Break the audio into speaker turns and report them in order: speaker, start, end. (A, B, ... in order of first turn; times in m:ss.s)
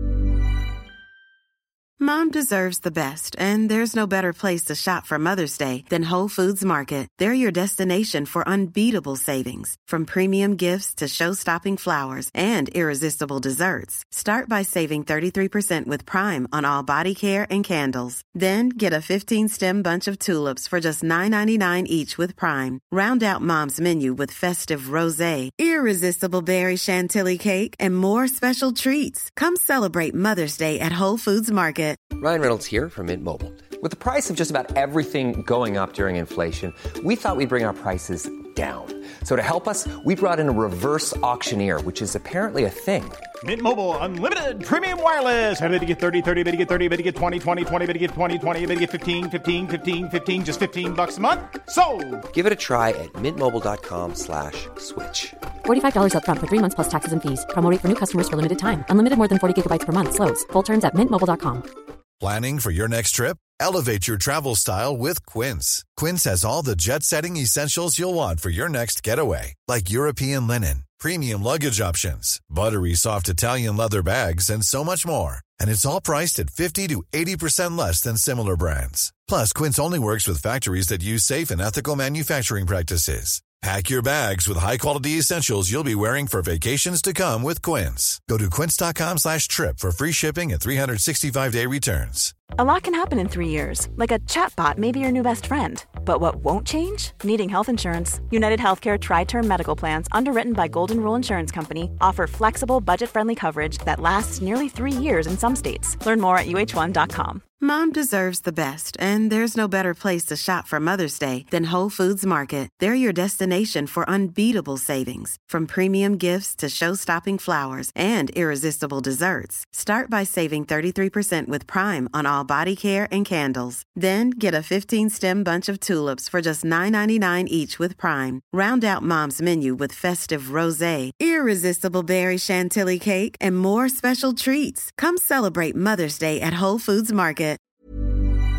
0:02.0-0:32.1 A
0:32.2-0:43.2 B
0:43.4-0:52.3 C
0:52.3-0:55.4 B
0:55.6-1:01.7 D
1:02.2-1:32.4 E
1:32.6-1:47.4 F
1:47.6-2:17.6 A